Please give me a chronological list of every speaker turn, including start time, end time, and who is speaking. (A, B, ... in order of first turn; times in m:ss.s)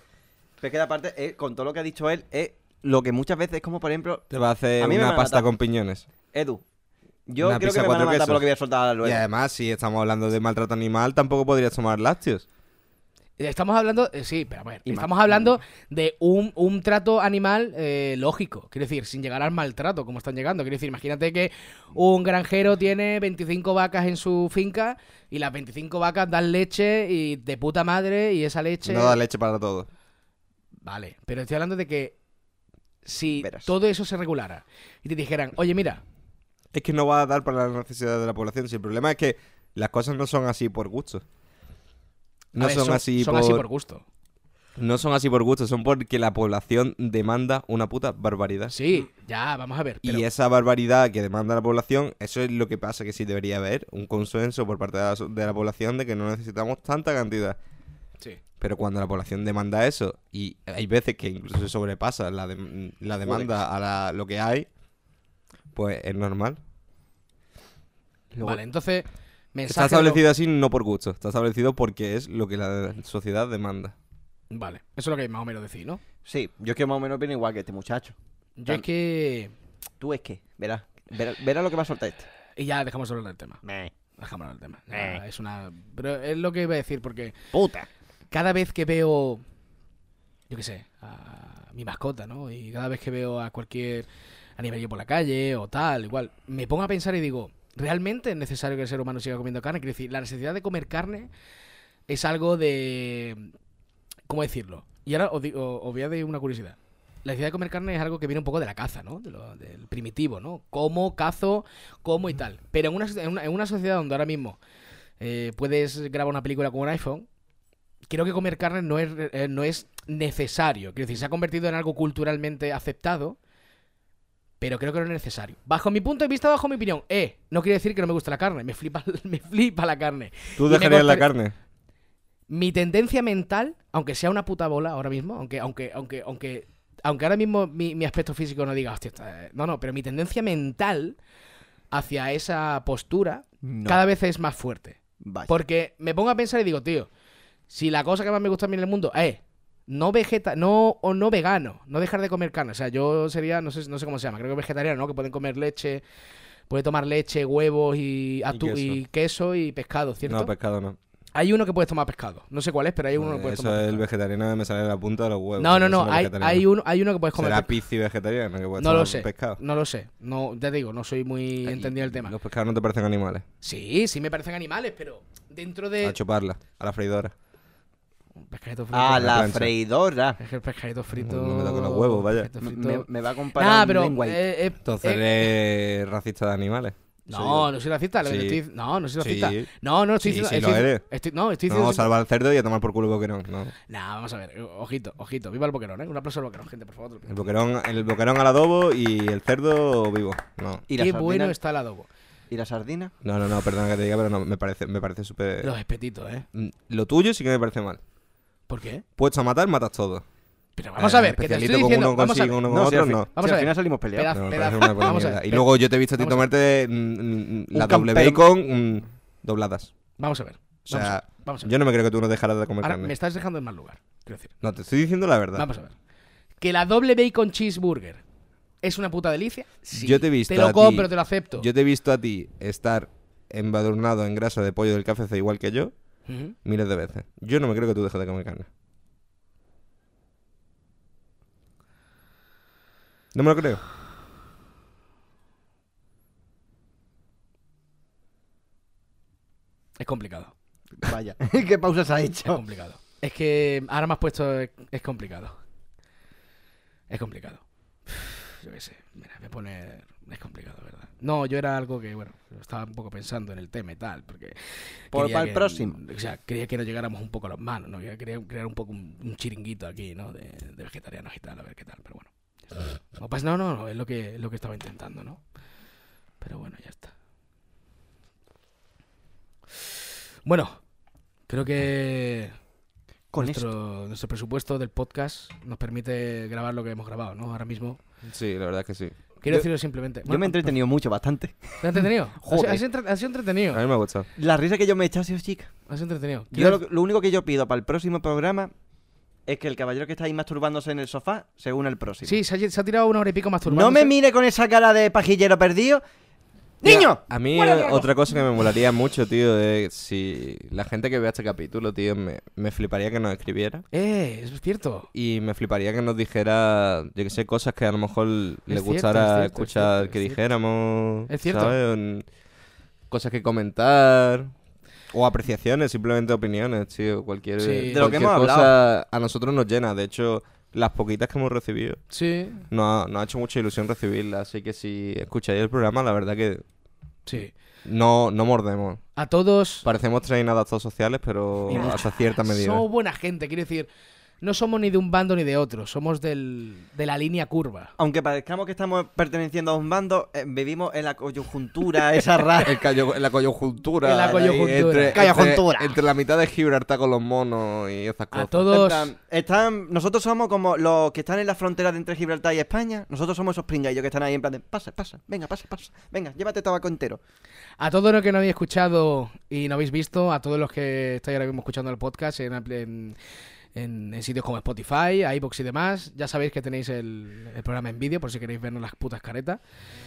0:00.6-0:04.2 A
0:04.3-0:06.0 B
0:04.8-0:05.5 A
0:06.3-0:06.6 A
0:07.3-0:09.2 A
0:07.4-0:08.4 B
0:09.0-0:12.4 B
0:13.4-0:29.2 C
0:14.9-0:15.6 A
0:28.8-0:29.9 B
0:30.8-0:32.2 C
0:33.0-0:36.0 C
0:33.4-0:33.7 A
0:36.7-0:41.2 B
0:42.5-0:43.6 B
0:42.6-0:44.0 C
0:44.8-0:48.7 B
0:48.7-0:50.2 C
0:50.0-0:57.6 B
0:58.6-1:04.7 B
1:03.3-1:03.6 A
1:05.7-1:06.6 B
1:08.3-1:08.6 A
1:08.4-1:10.2 C
1:09.7-1:13.9 B
1:14.5-1:16.0 C
1:16.2-1:18.1 A
1:18.6-1:19.5 C
1:20.0-1:22.3 A
1:22.6-1:23.6 C
1:23.6-1:23.9 A
1:24.2-1:27.4 C
1:24.9-1:25.2 A
1:27.5-1:27.9 A
1:28.3-1:29.4 C
1:30.5-1:41.3 C
1:42.1-1:43.5 C
1:44.3-1:54.6 C
1:55.2-1:57.3 C
1:58.1-2:03.4 C
2:04.6-2:11.3 C
2:10.6-2:11.5 B
2:12.5-2:21.2 C
2:21.9-2:27.1 C
2:23.6-2:24.0 A
2:25.2-2:25.5 A
2:27.7-2:36.0 C
2:36.7-2:40.5 C
2:38.5-2:39.0 B
2:40.2-2:41.0 B
2:41.4-2:44.0 C
2:43.1-2:46.6 B
2:45.6-2:47.8 C
2:47.4-2:49.6 B
2:48.8-2:52.3 C
2:51.6-2:53.4 B
2:53.6-2:56.2 C
2:56.0-2:57.3 B
2:58.4-2:59.6 C
2:58.9-3:00.4 A
2:59.1-2:59.7 B
3:00.4-3:05.5 C
3:01.2-3:02.5 B
3:02.6-3:04.4 A
3:04.8-3:07.7 B
3:07.3-3:12.1 C
3:08.2-3:08.6 B
3:09.2-3:09.7 B
3:10.2-3:11.0 B
3:11.7-3:13.7 B
3:13.9-3:17.5 C
3:17.3-3:20.8 B
3:20.9-3:21.6 A
3:21.0-3:22.1 C
3:22.5-3:23.1 A
3:23.2-3:25.7 B
3:25.6-3:26.4 C
3:26.5-3:28.0 B
3:28.7-3:29.0 C
3:29.2-3:30.2 B
3:30.8-3:32.6 C
3:31.0-3:33.3 B
3:32.7-3:34.6 A
3:33.4-3:36.4 C
3:34.3-3:39.9 B
3:37.7-3:38.4 A
3:40.2-3:41.7 C
3:40.9-3:43.1 B
3:42.8-3:44.5 C
3:44.6-3:45.7 B
3:45.5-3:45.9 C
3:46.6-3:48.2 C
3:48.8-3:51.7 C
3:49.9-3:55.9 B
3:56.3-3:56.5 C
3:56.6-3:58.7 B
4:03.3-4:03.8 B
4:10.0-4:10.5 C
4:11.0-4:12.6 A
4:12.5-4:15.6 C
4:17.1-4:35.4 C
4:25.1-4:26.0 A
4:36.4-4:37.1 C
4:40.4-4:40.8 C
4:41.5-4:42.5 C
4:43.3-4:43.7 A
4:43.4-4:48.0 C
4:48.2-4:49.1 B
4:49.4-4:50.7 C
4:50.2-4:52.8 A
4:51.8-4:53.8 C
4:53.7-4:54.3 B
4:54.4-4:55.7 A
4:55.9-4:56.8 C
4:56.5-4:58.7 A
4:59.5-5:02.4 A
5:02.2-5:04.1 C
5:03.7-5:06.0 A
5:06.8-5:07.2 A
5:06.8-5:13.8 B
5:07.5-5:08.1 C
5:13.9-5:15.1 C
5:15.1-5:22.3 B
5:18.7-5:20.4 C
5:21.3-5:21.8 C
5:23.1-5:24.5 B
5:25.1-5:32.0 B
5:27.6-5:28.2 C
5:27.9-5:28.7 A
5:32.1-5:32.6 C
5:32.7-5:36.6 B
5:37.2-5:37.5 C
5:37.8-5:39.0 B
5:39.2-5:39.8 C
5:39.8-5:42.8 B
5:41.7-5:43.9 C
5:41.7-5:42.0 A
5:44.4-5:47.9 C
5:48.0-5:52.8 A
5:52.6-5:58.7 B
5:54.0-5:55.3 C
5:55.1-5:56.0 A
5:58.3-5:59.1 C
5:58.7-6:07.2 A
6:07.8-6:13.2 C
6:13.7-6:19.6 C